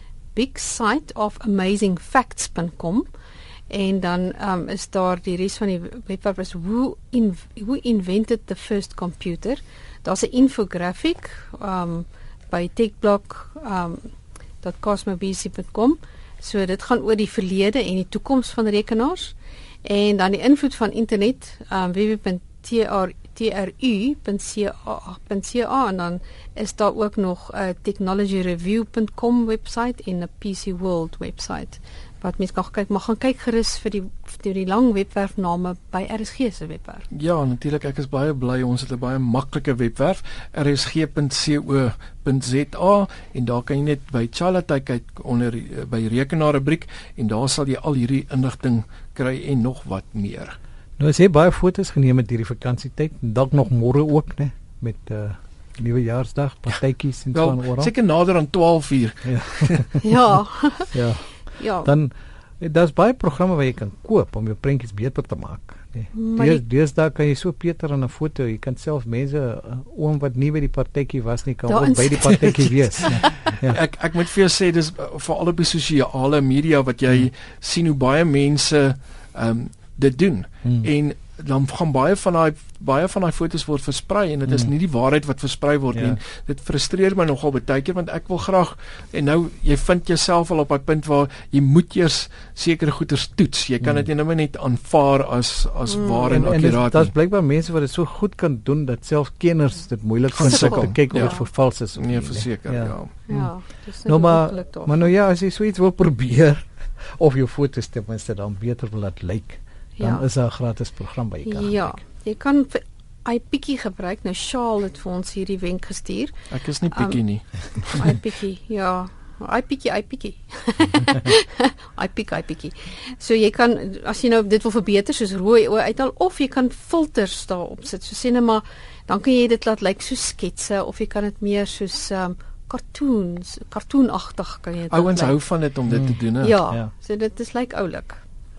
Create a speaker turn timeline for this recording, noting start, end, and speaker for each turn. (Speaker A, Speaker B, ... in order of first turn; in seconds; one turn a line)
Speaker A: 0.3-3.1
Speaker A: 3.7-14.1
Speaker A: 14.6-37.0
Speaker B: 37.1-50.5
Speaker C: 51.0-57.9
Speaker B: 57.3-59.8
Speaker C: 59.3-60.0
Speaker A: 60.0-61.9
Speaker C: 60.9-73.8
Speaker A: 66.1-66.6
Speaker A: 71.7-73.5
Speaker B: 73.4-97.1
Speaker C: 85.9-86.2
Speaker A: 95.9-96.5
Speaker C: 96.2-103.5
Speaker B: 100.3-101.4
Speaker A: 100.4-101.4
Speaker B: 102.0-103.1
Speaker A: 103.3-105.1
Speaker C: 104.0-112.0
Speaker A: 110.0-110.2
Speaker A: 111.4-116.3
Speaker B: 116.5-118.0
Speaker A: 116.9-117.2
Speaker A: 117.8-135.4
Speaker B: 134.9-136.6
Speaker C: 135.9-136.2
Speaker A: 136.4-138.2